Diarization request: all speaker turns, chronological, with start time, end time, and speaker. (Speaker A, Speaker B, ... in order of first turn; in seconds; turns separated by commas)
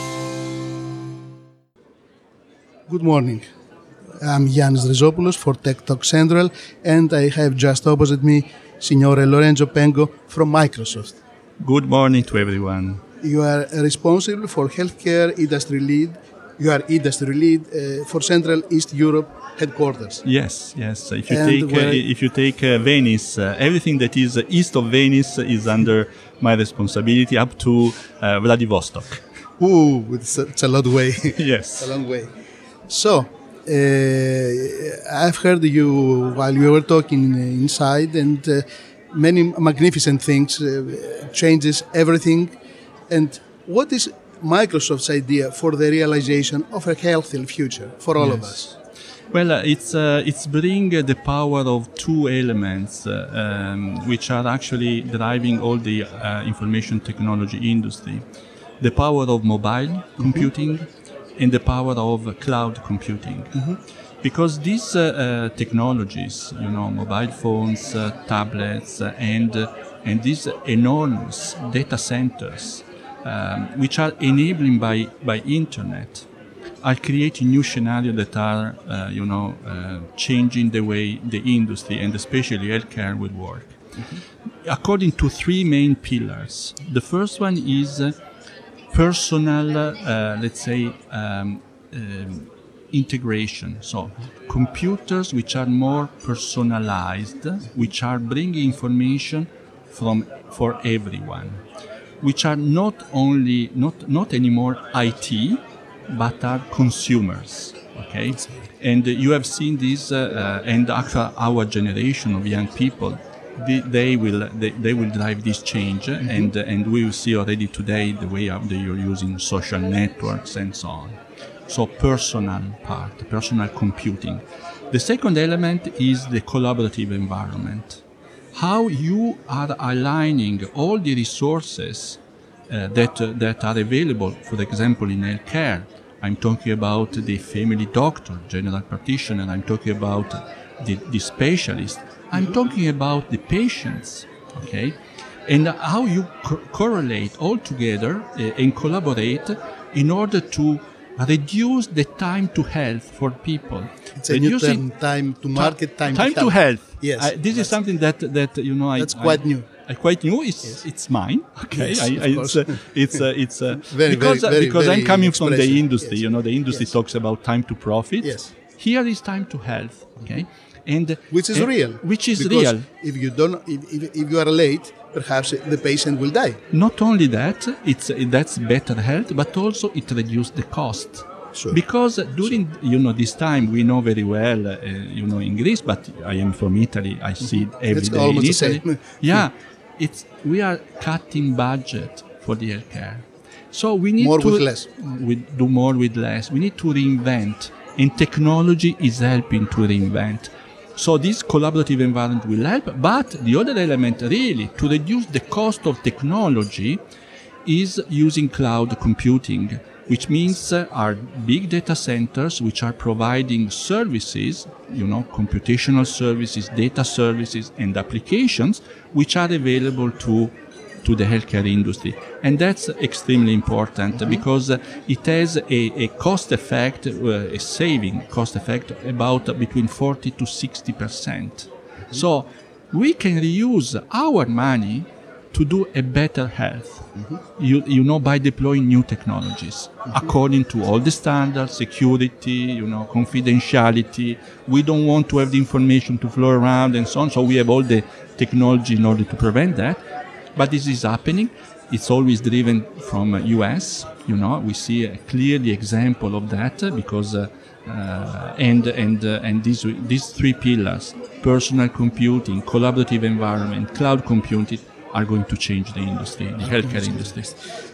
Speaker A: 2.9-3.4, Speaker A: 4.2-11.2, Speaker B: 11.6-13.0, Speaker A: 13.2-20.2, Speaker B: 20.2-29.2, Speaker A: 21.3-22.0, Speaker A: 29.6-32.3, Speaker B: 31.3-32.0, Speaker A: 32.9-42.5, Speaker A: 43.1-48.7, Speaker B: 48.2-48.8, Speaker B: 49.3-58.2, Speaker B: 58.8-63.6, Speaker A: 60.2-60.5, Speaker B: 64.2-76.3, Speaker B: 76.8-83.8, Speaker B: 84.6-88.2, Speaker B: 88.9-101.6, Speaker B: 102.2-128.0, Speaker B: 128.5-154.8, Speaker A: 154.2-157.7, Speaker B: 155.5-172.8, Speaker A: 159.0-159.7, Speaker A: 161.7-162.8, Speaker A: 163.8-166.2, Speaker A: 168.2-168.5, Speaker A: 171.3-176.6, Speaker B: 176.7-207.0, Speaker A: 181.5-181.8, Speaker A: 187.8-189.4, Speaker A: 194.2-194.9, Speaker B: 207.6-250.0, Speaker B: 250.5-267.5, Speaker A: 266.6-267.5